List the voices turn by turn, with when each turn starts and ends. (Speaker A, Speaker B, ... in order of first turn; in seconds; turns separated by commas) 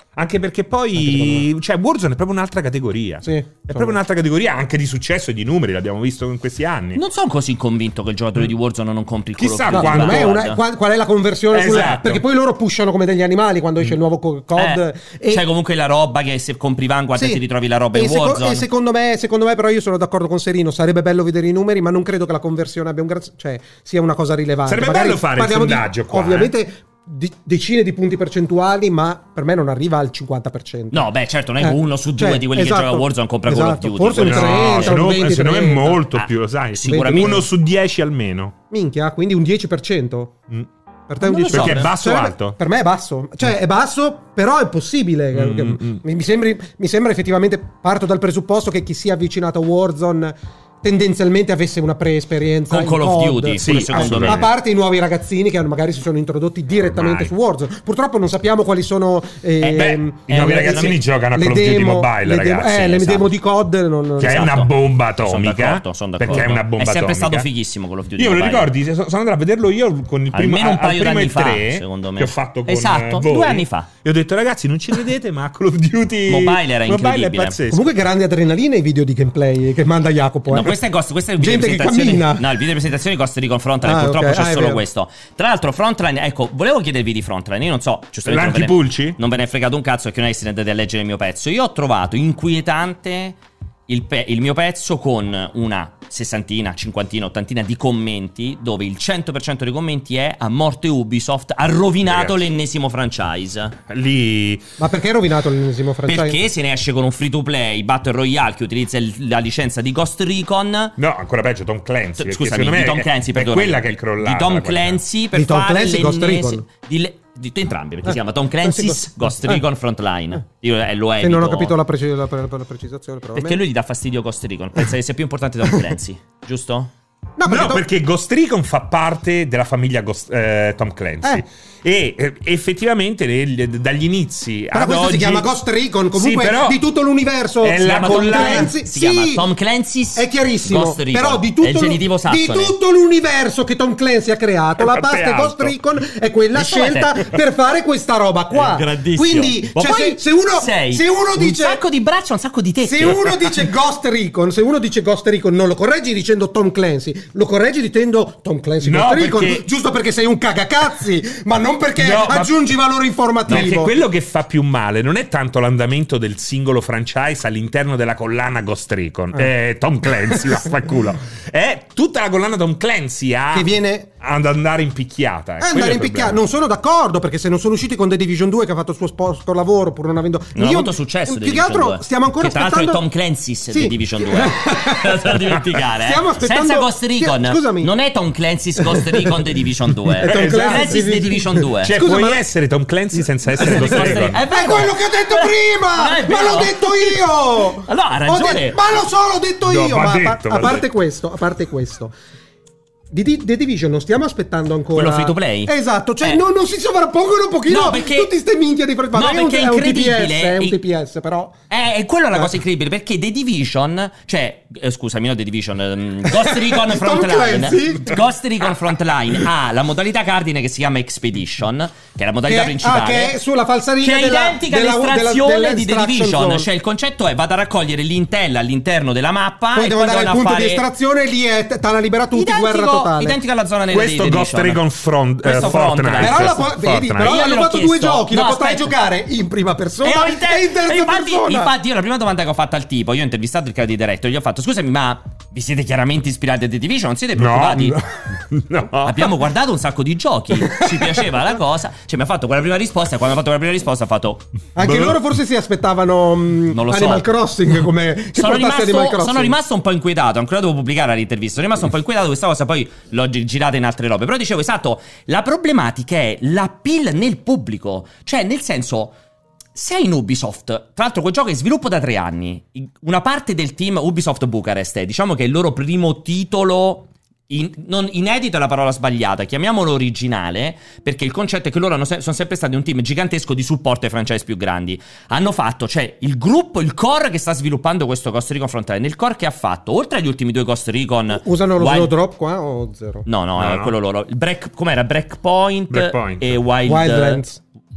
Speaker A: 0.1-7.0, Speaker B: 1.0-1.4, Speaker B: 3.2-4.0, Speaker C: 7.0-10.6, Speaker A: 9.4-10.3, Speaker B: 9.7-15.4, Speaker A: 11.5-12.2, Speaker C: 14.6-18.6, Speaker B: 17.1-31.1, Speaker A: 24.7-26.5, Speaker C: 30.9-35.0, Speaker B: 31.6-36.0, Speaker A: 34.2-38.5, Speaker C: 36.1-37.4, Speaker B: 36.9-37.5, Speaker B: 38.7-40.4, Speaker B: 41.1-64.7, Speaker C: 41.2-41.9, Speaker A: 41.5-42.6, Speaker A: 45.3-46.0, Speaker C: 52.7-54.5, Speaker A: 53.6-54.5, Speaker A: 56.9-57.3, Speaker A: 59.6-63.1, Speaker C: 60.3-61.0, Speaker A: 64.2-67.5, Speaker C: 64.2-68.7, Speaker A: 68.2-77.9, Speaker C: 70.3-73.9, Speaker C: 76.3-77.6, Speaker B: 77.7-80.8, Speaker C: 80.5-103.8, Speaker B: 81.4-82.5, Speaker B: 83.8-84.8, Speaker A: 88.2-89.2, Speaker A: 102.1-102.4, Speaker A: 103.9-104.6, Speaker B: 104.8-106.4, Speaker C: 106.1-111.0, Speaker A: 111.0-115.0, Speaker C: 112.2-121.8, Speaker B: 115.3-116.7, Speaker B: 118.1-119.6, Speaker B: 121.2-123.6, Speaker C: 123.3-126.9, Speaker B: 127.4-127.8, Speaker A: 127.5-135.5, Speaker B: 134.7-139.5, Speaker A: 136.1-136.8, Speaker A: 137.6-138.7, Speaker C: 137.8-142.8, Speaker B: 140.1-151.8, Speaker A: 144.8-145.8, Speaker C: 146.6-147.3, Speaker C: 148.5-153.4, Speaker B: 152.8-163.9, Speaker A: 158.8-159.6, Speaker A: 162.0-162.6, Speaker A: 163.5-173.7, Speaker B: 173.5-174.1, Speaker A: 174.2-176.4, Speaker B: 175.6-183.0, Speaker C: 180.6-191.9, Speaker B: 183.7-185.4, Speaker B: 186.0-187.9, Speaker B: 188.8-189.3, Speaker B: 190.2-192.4, Speaker A: 190.2-191.1, Speaker A: 191.8-194.4, Speaker B: 193.1-202.1, Speaker C: 193.6-197.2, Speaker C: 197.8-198.8, Speaker A: 199.6-200.9, Speaker B: 203.1-211.6, Speaker C: 204.9-206.4, Speaker C: 207.7-208.3, Speaker C: 209.1-210.8, Speaker C: 211.7-223.4, Speaker B: 216.3-218.2, Speaker B: 222.4-226.7, Speaker C: 224.0-230.8, Speaker B: 229.7-233.4, Speaker C: 232.3-234.8, Speaker A: 233.9-237.3, Speaker C: 235.4-236.6, Speaker B: 235.5-241.7, Speaker C: 237.2-238.9, Speaker C: 240.0-248.0, Speaker A: 247.4-249.4, Speaker C: 249.0-254.4, Speaker B: 250.7-251.1, Speaker B: 254.8-259.6, Speaker A: 254.8-255.2, Speaker C: 256.7-257.3, Speaker C: 258.4-269.1, Speaker C: 269.8-292.1, Speaker B: 291.3-293.3, Speaker C: 293.3-297.4, Speaker A: 293.6-293.9, Speaker A: 295.9-296.6, Speaker B: 296.9-297.6